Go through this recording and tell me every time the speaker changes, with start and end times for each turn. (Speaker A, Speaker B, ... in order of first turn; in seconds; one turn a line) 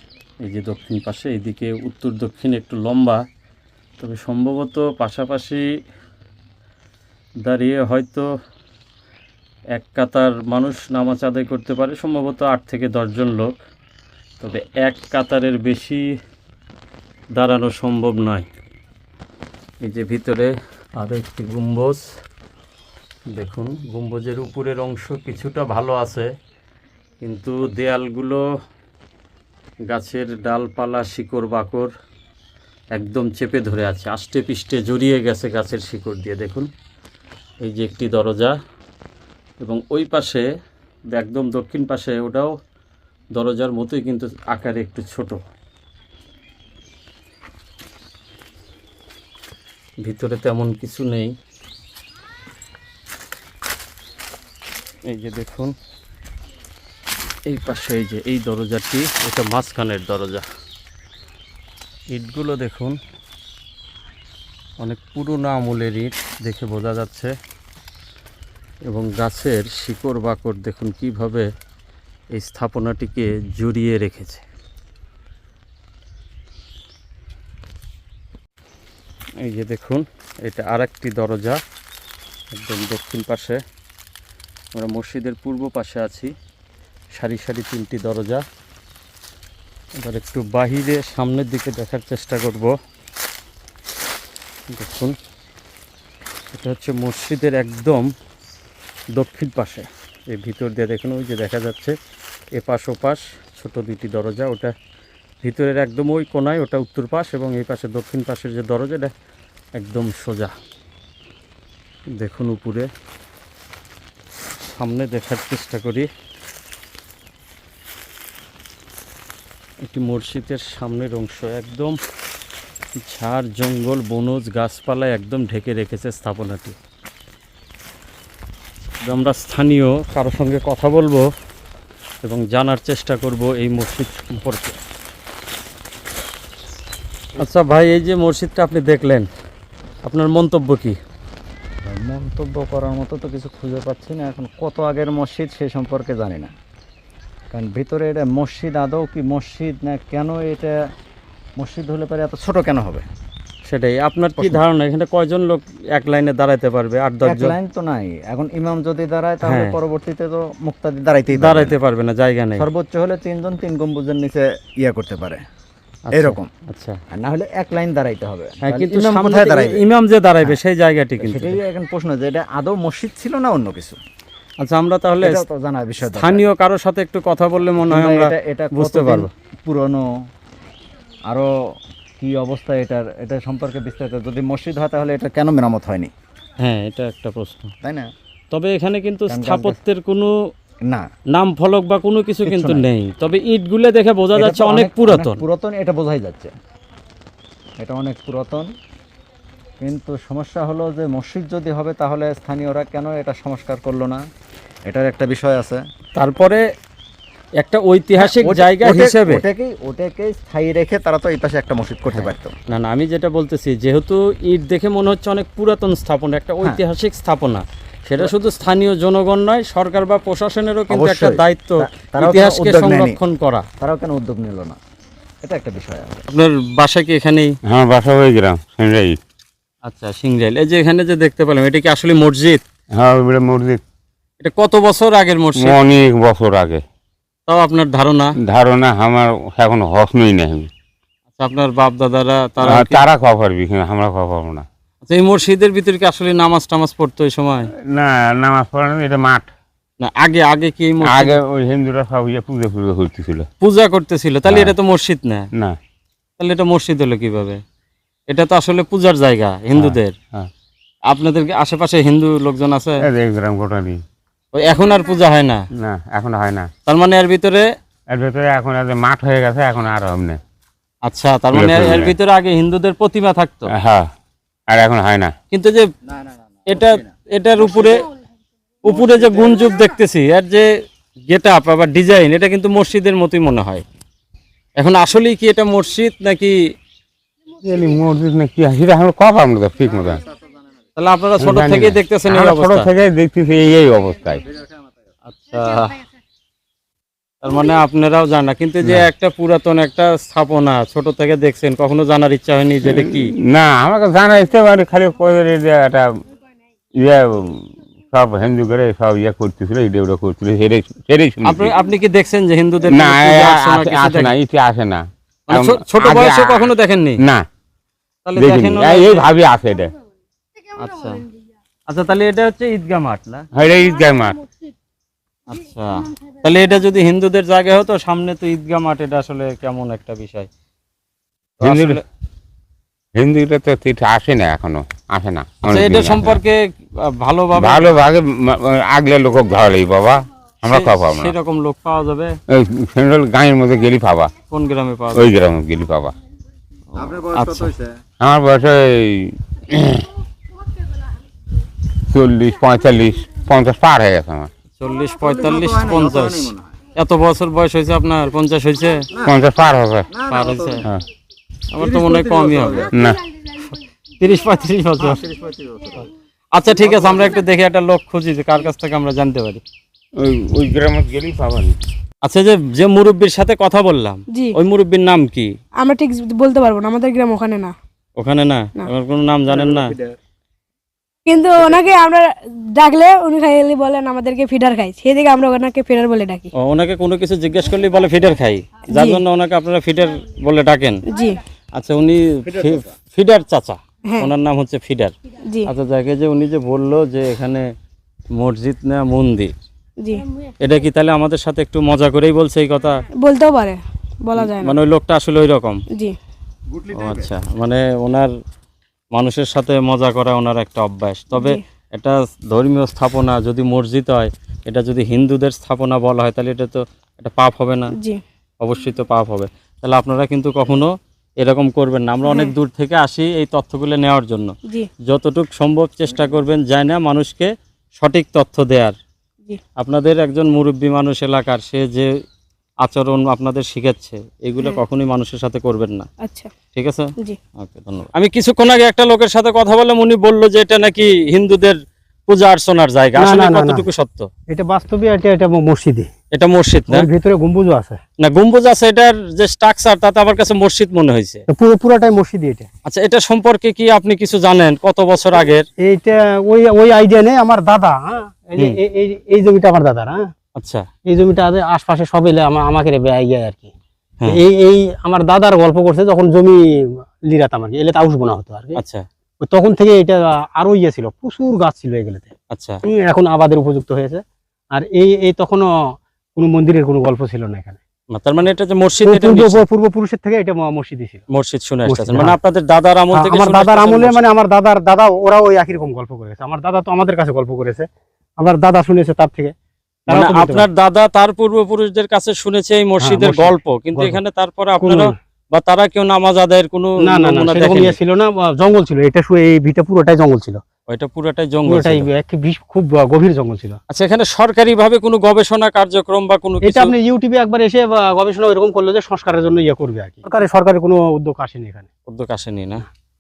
Speaker A: 0.4-3.2
Speaker A: 4.0-5.6
Speaker A: 7.4-8.3
Speaker A: 9.7-13.6
Speaker A: 14.4-16.0
Speaker A: 17.3-18.5
Speaker A: 19.8-22.0
Speaker A: 23.3-26.3
Speaker A: 27.2-28.4
Speaker A: 29.9-31.9
Speaker A: 32.9-36.7
Speaker A: 37.6-38.5
Speaker A: 39.6-40.5
Speaker A: 41.1-42.5
Speaker A: 43.3-45.4
Speaker A: 50.0-51.3
Speaker A: 55.1-55.7
Speaker A: 57.5-60.4
Speaker A: 62.1-63.0
Speaker A: 64.8-67.3
Speaker A: 68.9-71.5
Speaker A: 72.3-74.4
Speaker A: 79.4-81.6
Speaker A: 82.5-83.6
Speaker A: 84.7-86.3
Speaker A: 87.1-88.4
Speaker A: 90.0-92.7
Speaker A: 94.7-95.2
Speaker A: 96.5-98.1
Speaker A: 99.2-101.9
Speaker A: 102.5-104.7
Speaker A: 105.4-109.1
Speaker A: 109.8-110.5
Speaker A: 112.2-112.9
Speaker A: 114.6-116.1
Speaker A: 119.8-122.0
Speaker A: 123.0-126.8
Speaker A: 129.0-131.2
Speaker A: 132.2-134.8
Speaker A: 137.4-139.3
Speaker A: 140.0-141.0
Speaker B: 141.9-146.5
Speaker B: 147.5-150.7
Speaker B: 151.6-153.0
Speaker A: 153.7-157.6
Speaker B: 157.2-161.8
Speaker A: 159.4-159.8
Speaker A: 161.3-162.7
Speaker B: 162.6-165.4
Speaker A: 166.1-167.0
Speaker B: 166.1-166.5
Speaker B: 167.1-169.8
Speaker A: 168.6-171.6
Speaker B: 171.2-174.0
Speaker A: 174.6-175.4
Speaker B: 175.2-176.4
Speaker A: 176.0-179.3
Speaker B: 177.8-180.0
Speaker B: 182.2-186.1
Speaker A: 186.6-187.7
Speaker B: 187.8-188.1
Speaker A: 188.5-190.3
Speaker B: 189.3-189.8
Speaker A: 191.3-195.4
Speaker B: 192.4-192.8
Speaker B: 194.3-196.5
Speaker B: 197.8-198.7
Speaker B: 199.8-204.2
Speaker B: 204.9-205.8
Speaker A: 206.1-206.6
Speaker A: 207.6-209.4
Speaker B: 208.2-212.5
Speaker A: 212.1-223.6
Speaker B: 220.9-223.2
Speaker B: 223.8-224.8
Speaker B: 225.4-226.3
Speaker A: 226.3-227.5
Speaker C: 227.7-229.2
Speaker A: 229.8-232.6
Speaker C: 232.9-233.8
Speaker A: 234.4-235.8
Speaker C: 235.6-236.8
Speaker A: 237.5-238.3
Speaker C: 238.5-240.7
Speaker A: 241.3-243.1
Speaker C: 242.6-244.7
Speaker A: 245.0-247.7
Speaker C: 247.9-249.5
Speaker A: 250.0-251.3
Speaker C: 251.0-253.5
Speaker A: 253.6-255.5
Speaker C: 254.4-254.7
Speaker A: 256.4-257.6
Speaker A: 258.3-260.1
Speaker C: 259.7-260.5
Speaker A: 261.1-263.0
Speaker C: 263.1-264.0
Speaker A: 264.5-265.6
Speaker C: 265.8-266.7
Speaker A: 266.9-267.6
Speaker C: 268.1-270.4
Speaker A: 271.0-273.7
Speaker C: 271.5-272.1
Speaker C: 273.8-274.1
Speaker C: 274.7-275.3
Speaker A: 275.5-275.9
Speaker B: 276.1-277.1
Speaker A: 276.7-278.1
Speaker A: 278.8-280.7
Speaker A: 281.3-283.8
Speaker A: 284.8-286.6
Speaker C: 287.6-290.2
Speaker A: 290.9-292.9
Speaker C: 291.4-294.4
Speaker A: 295.3-296.0
Speaker A: 297.4-303.3
Speaker C: 302.8-306.1
Speaker C: 307.0-311.7
Speaker A: 311.4-314.3
Speaker C: 312.9-316.7
Speaker A: 315.5-317.2
Speaker A: 318.2-319.3
Speaker C: 318.4-319.9
Speaker A: 320.8-321.2
Speaker A: 321.9-323.4
Speaker C: 323.5-324.4
Speaker A: 325.5-330.5
Speaker A: 331.6-332.0
Speaker C: 331.6-332.0
Speaker C: 333.1-336.4
Speaker A: 335.7-338.0
Speaker C: 337.6-341.3
Speaker A: 340.6-342.4
Speaker C: 342.5-344.3
Speaker A: 344.5-345.3
Speaker C: 345.1-346.1
Speaker A: 347.0-347.7
Speaker B: 347.0-347.9
Speaker C: 348.2-350.1
Speaker C: 352.1-354.5
Speaker A: 354.8-359.1
Speaker B: 355.2-356.7
Speaker C: 359.2-360.1
Speaker B: 360.1-360.8
Speaker A: 360.3-360.8
Speaker A: 361.7-362.9
Speaker B: 361.8-362.9
Speaker C: 362.9-363.2
Speaker A: 363.5-365.2
Speaker B: 365.0-366.1
Speaker A: 366.5-369.6
Speaker B: 366.8-367.3
Speaker C: 370.2-371.8
Speaker A: 372.2-375.5
Speaker D: 375.8-377.7
Speaker A: 378.2-379.9
Speaker B: 379.7-380.1
Speaker D: 381.2-386.5
Speaker A: 386.6-391.0
Speaker D: 389.0-389.2
Speaker D: 391.1-391.4
Speaker A: 391.8-395.1
Speaker A: 395.6-397.7
Speaker A: 398.4-399.5
Speaker A: 400.6-403.0
Speaker D: 403.1-404.8
Speaker A: 404.4-405.8
Speaker A: 406.9-408.3
Speaker A: 409.1-417.9
Speaker D: 411.3-411.6
Speaker D: 417.9-418.2
Speaker A: 418.6-424.5
Speaker A: 425.0-428.9
Speaker A: 429.8-432.1
Speaker A: 432.8-436.1
Speaker D: 436.2-436.5
Speaker A: 436.7-444.3
Speaker E: 443.1-443.9
Speaker E: 444.5-446.1
Speaker A: 446.3-447.1
Speaker E: 446.9-448.0
Speaker A: 448.2-451.4
Speaker E: 451.5-452.7
Speaker A: 452.9-455.6
Speaker E: 455.8-460.3
Speaker A: 460.6-460.8
Speaker E: 461.1-463.7
Speaker E: 464.3-466.6
Speaker E: 467.3-468.8
Speaker A: 468.8-469.0
Speaker E: 469.4-472.3
Speaker A: 472.5-472.8
Speaker E: 472.8-475.7
Speaker E: 476.4-477.8
Speaker A: 478.1-479.6
Speaker E: 479.0-481.2
Speaker A: 481.3-484.2
Speaker E: 481.9-482.4
Speaker E: 483.1-487.9
Speaker E: 488.4-489.5
Speaker E: 490.1-490.7
Speaker A: 490.1-497.9
Speaker E: 493.0-494.2
Speaker E: 494.8-495.1
Speaker E: 497.0-500.6
Speaker A: 500.9-502.1
Speaker E: 501.6-503.8
Speaker A: 503.9-506.9
Speaker E: 506.6-511.9
Speaker A: 512.1-512.9